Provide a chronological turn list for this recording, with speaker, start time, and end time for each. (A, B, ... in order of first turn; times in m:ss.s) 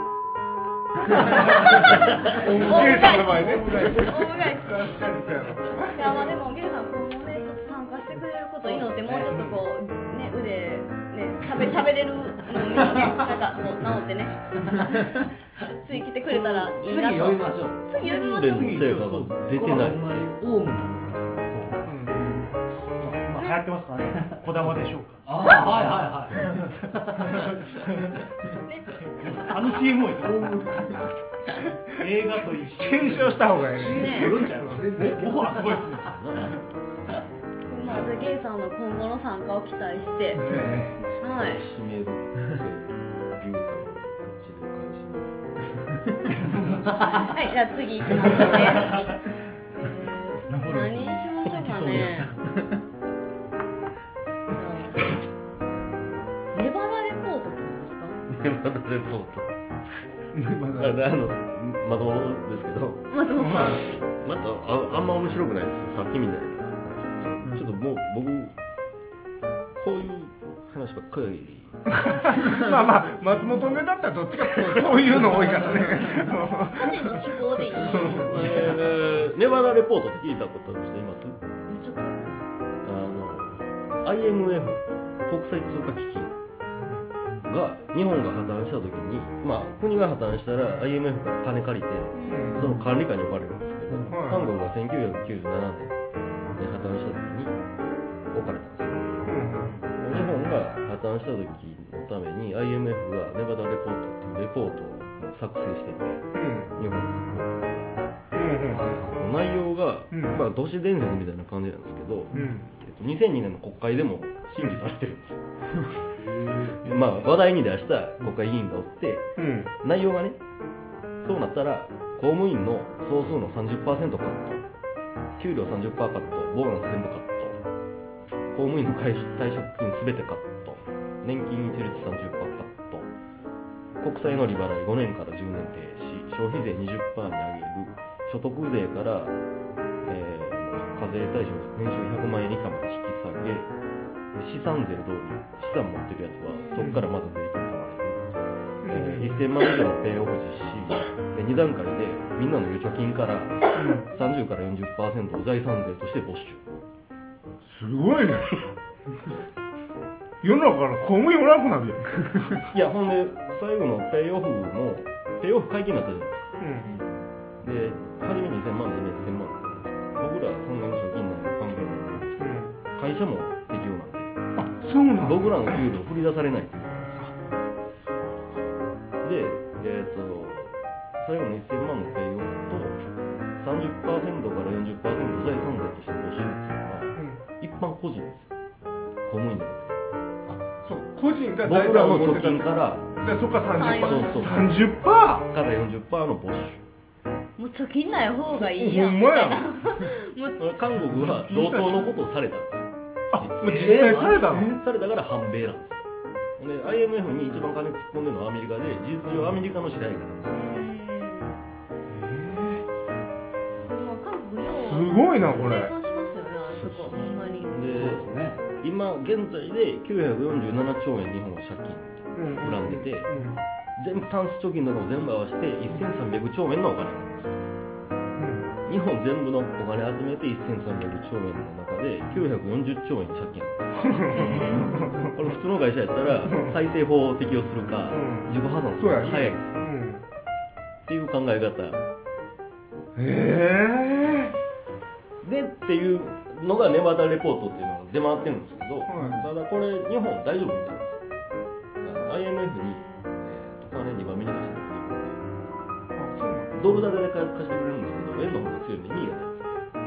0:01.4-0:04.9 A
0:02.3-0:06.1 B
0:02.3-0:03.9 C
0:05.9-0:18.7 A
0:08.6-0:09.3 C
0:09.3-0:09.6 B
0:16.2-0:23.4 C
0:18.0-0:20.1 D
0:21.8-0:22.2 B
0:23.0-0:25.3 E
0:25.2-0:27.5 C
0:27.2-0:27.5 E
0:28.6-0:29.0 A
0:29.2-0:31.1 E
0:29.3-0:30.5 C
0:31.9-0:33.7 E
0:32.8-0:34.9 B
0:33.7-0:36.0 C
0:33.8-0:34.3 A
0:34.9-0:36.2 E
0:36.0-0:36.5 D
0:37.7-0:40.4 A
0:40.4-0:40.8 B
0:40.4-0:41.2 C
0:40.5-0:45.4 D
0:41.2-0:41.6 A
0:47.2-0:49.1 A
0:49.7-0:52.3 A
0:50.5-0:52.3 E
0:54.5-0:55.0 A
0:56.5-0:58.2 A
0:58.3-0:59.5 D
1:00.3-1:01.0 B
1:00.7-1:03.1 D
1:03.1-1:03.9 A
1:03.4-1:03.8 B
1:03.6-1:08.5 D
1:09.8-1:12.4 D
1:12.1-1:18.5 B
1:16.7-1:18.8 A
1:17.8-1:21.4 D
1:21.7-1:22.4 A
1:22.8-1:26.3 D
1:27.4-1:36.0 D
1:32.1-1:32.6 A
1:32.3-1:32.7 B
1:34.0-1:34.5 B
1:36.5-1:37.5 D
1:38.3-1:39.3 D
1:39.2-1:39.7 B
1:39.9-1:47.9 D
1:46.3-1:46.7 B
1:48.3-1:49.0 B
1:48.7-1:49.2 C
1:49.0-1:55.4 D
1:50.1-1:50.4 B
1:52.3-1:52.7 B
1:56.2-1:56.8 C
1:56.8-1:59.3 D
1:59.4-1:59.7 B
1:59.8-2:00.4 D
2:01.2-2:04.6 D
2:05.4-2:07.6 D
2:08.5-2:13.1 D
2:14.0-2:19.4 D
2:20.0-2:23.7 D
2:24.3-2:28.3 D
2:26.5-2:26.9 A
2:26.8-2:27.0 B
2:28.8-2:29.4 B
2:28.8-2:36.7 D
2:33.8-2:34.1 B
2:37.6-2:38.5 B
2:40.4-2:42.6 B
2:42.7-2:46.6 D
2:46.6-2:47.0 B
2:46.8-2:47.1 A
2:47.6-2:54.4 D
2:52.4-2:52.8 B
2:54.6-2:55.8 B
2:55.2-2:57.3 D
2:59.2-3:03.0 D
3:03.6-3:08.5 D
3:07.2-3:07.4 B
3:09.2-3:10.0 D
3:10.5-3:15.5 B
3:11.6-3:14.7 D
3:13.8-3:14.5 A
3:15.4-3:16.8 D
3:17.6-3:20.6 A
3:18.5-3:19.8 B
3:20.6-3:26.0 D
3:21.2-3:22.2 B
3:23.3-3:24.8 B
3:23.6-3:24.7 C
3:26.6-3:30.7 D
3:30.5-3:31.6 A
3:32.1-3:32.8 B
3:33.8-3:37.8 A
3:34.8-3:35.9 B
3:36.7-3:43.3 D
3:37.8-3:38.6 C
3:42.3-3:43.6 B
3:44.0-3:47.6 D
3:48.4-3:48.7 B
3:48.8-3:59.8 D
3:54.1-3:55.3 B
3:54.3-3:55.0 A
3:56.5-3:56.7 B
3:58.1-4:00.2 B
4:01.1-4:02.0 D
4:03.2-4:04.5 B
4:05.4-4:11.2 D
4:09.0-4:09.5 B
4:12.0-4:15.4 D
4:16.1-4:17.1 B
4:16.7-4:19.8 D